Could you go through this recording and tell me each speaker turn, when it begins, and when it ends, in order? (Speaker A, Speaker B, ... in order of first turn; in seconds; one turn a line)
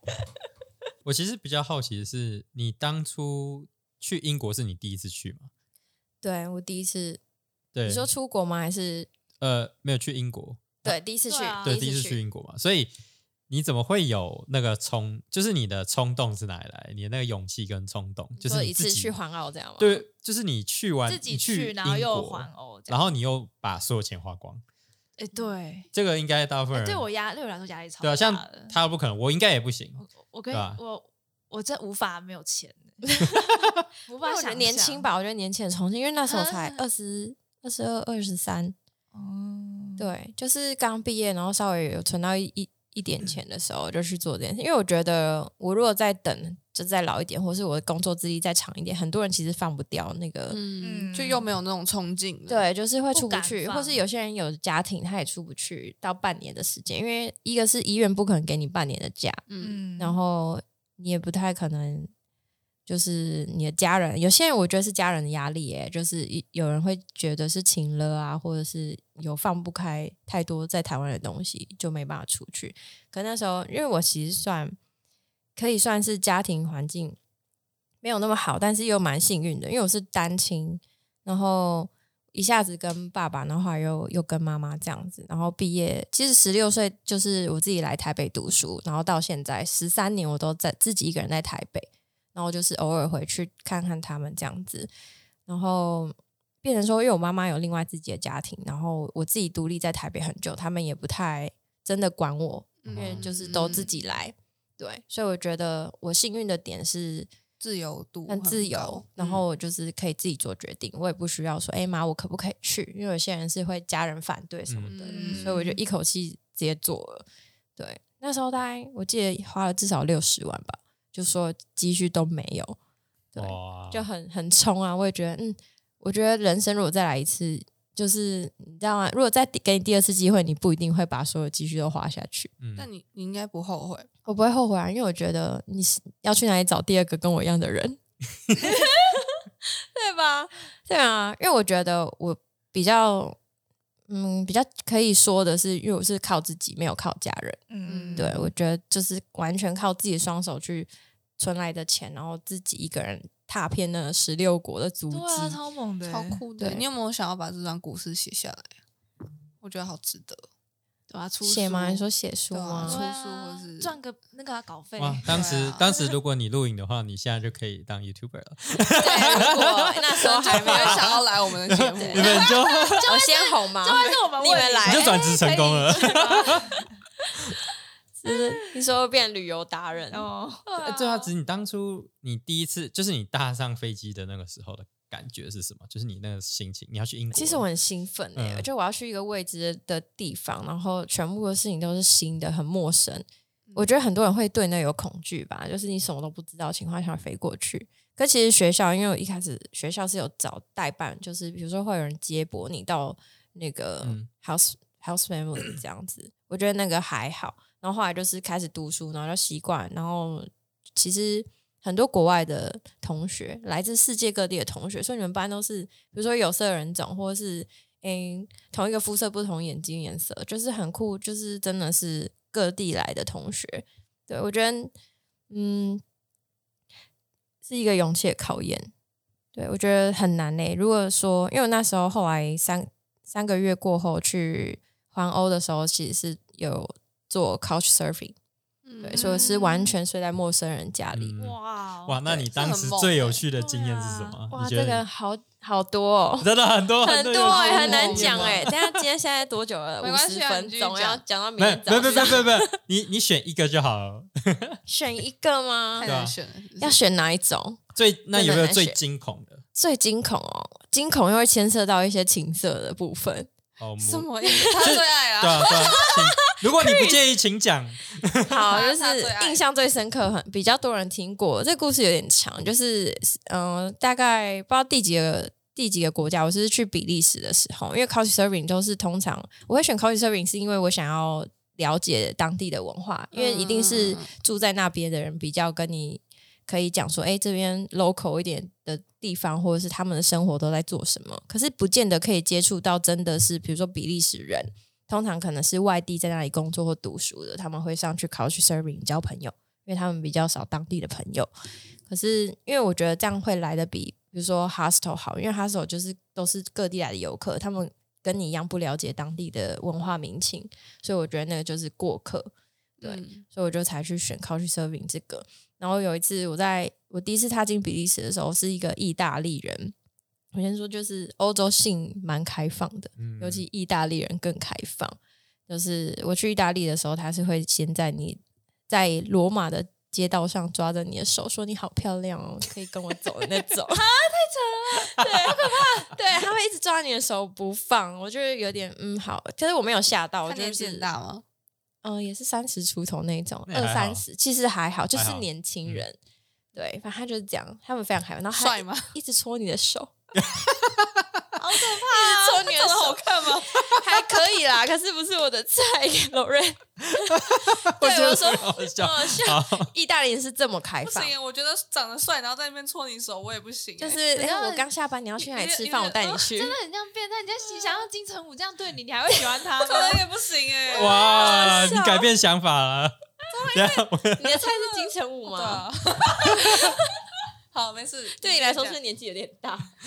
Speaker A: 1.0-5.5
Speaker B: 6.2-7.2
Speaker A: 7.7-8.1
Speaker B: 7.8-9.1
Speaker A: 9.4-11.0
Speaker B: 10.8-12.2
Speaker C: 11.3-11.8
Speaker A: 11.6-12.9
Speaker A: 13.5-19.1
Speaker B: 18.4-20.0
Speaker A: 19.8-24.6
Speaker C: 21.1-23.1
Speaker C: 25.2-25.9
Speaker A: 25.9-27.1
Speaker C: 26.7-28.7
Speaker A: 28.0-30.8
Speaker C: 30.0-33.4
Speaker C: 34.0-35.1
Speaker B: 34.2-38.7
Speaker C: 36.2-36.8
Speaker C: 39.1-40.1
Speaker B: 40.0-50.6
Speaker D: 50.5-52.6
Speaker C: 50.8-51.5
Speaker B: 52.5-59.4
Speaker C: 53.1-54.0
Speaker D: 59.5-59.8
Speaker C: 59.6-60.2
Speaker B: 60.0-62.1
Speaker B: 62.9-74.8
Speaker B: 75.5-77.2
Speaker B: 78.0-94.9
Speaker B: 95.5-107.3
Speaker D: 102.8-103.9
Speaker A: 102.9-103.3
Speaker D: 107.6-109.4
Speaker B: 108.3-117.2
Speaker A: 114.7-115.0
Speaker D: 114.9-115.7
Speaker C: 115.1-115.8
Speaker B: 117.8-122.8
Speaker B: 123.3-132.5
Speaker A: 123.4-124.0
Speaker A: 132.6-132.9
Speaker D: 132.8-134.1
Speaker B: 134.2-138.0
Speaker B: 138.6-143.4
Speaker B: 144.1-147.6
Speaker C: 147.7-148.5
Speaker D: 147.8-148.3
Speaker B: 148.2-155.6
Speaker C: 155.1-156.4
Speaker D: 156.1-158.8
Speaker D: 159.6-160.5
Speaker C: 161.1-162.0
Speaker B: 161.4-163.0
Speaker D: 162.5-163.9
Speaker C: 162.8-166.1
Speaker A: 165.0-173.1
Speaker D: 165.3-165.8
Speaker B: 169.0-171.2
Speaker C: 169.0-169.7
Speaker D: 170.2-172.5
Speaker C: 172.1-176.8
Speaker B: 173.0-175.4
Speaker A: 174.8-176.8
Speaker B: 178.2-180.3
Speaker C: 178.2-178.5
Speaker C: 180.1-181.3
Speaker A: 180.8-187.6
Speaker B: 187.3-224.9
Speaker A: 188.3-188.7
Speaker A: 204.0-204.3
Speaker B: 225.5-226.0
Speaker B: 227.6-228.9
Speaker B: 229.5-238.3
Speaker D: 238.8-239.6
Speaker B: 239.0-241.3
Speaker C: 239.1-239.9
Speaker A: 241.1-245.0
Speaker C: 241.4-242.2
Speaker D: 242.5-243.4
Speaker C: 243.5-244.4
Speaker B: 244.5-246.5
Speaker A: 246.4-249.0
Speaker B: 247.0-252.7
Speaker D: 247.4-248.7
Speaker D: 250.0-251.2
Speaker A: 251.6-254.8
Speaker B: 254.9-256.1
Speaker D: 255.9-257.0
Speaker A: 256.0-256.3
Speaker B: 256.8-259.0
Speaker A: 257.9-259.6
Speaker B: 259.7-263.5
Speaker A: 263.8-264.3
Speaker D: 264.0-266.0
Speaker A: 264.8-268.7
Speaker B: 266.8-267.1
Speaker B: 268.5-301.5
Speaker D: 268.6-269.6
Speaker D: 283.3-284.3
Speaker B: 302.1-312.5
Speaker D: 313.0-313.4
Speaker B: 313.0-319.9
Speaker B: 320.5-325.2
Speaker A: 323.2-323.6
Speaker B: 325.7-334.0
Speaker C: 333.9-335.9
Speaker B: 335.0-341.1
Speaker D: 340.4-341.4
Speaker B: 342.0-346.2
Speaker A: 343.7-344.2
Speaker A: 345.1-346.0
Speaker B: 346.7-350.1
Speaker D: 348.5-349.1
Speaker A: 350.4-351.2
Speaker C: 351.6-352.9
Speaker B: 351.8-361.3
Speaker D: 352.7-353.7
Speaker A: 357.2-359.9
Speaker D: 361.0-364.2
Speaker B: 364.0-366.8
Speaker C: 364.3-364.9
Speaker D: 365.4-366.3
Speaker C: 366.4-370.2
Speaker D: 369.8-371.6
Speaker A: 370.9-373.1
Speaker B: 371.1-372.3
Speaker C: 371.4-371.8
Speaker A: 373.7-374.6
Speaker B: 374.4-377.0
Speaker D: 375.4-377.0
Speaker D: 377.7-379.0
Speaker B: 378.4-379.9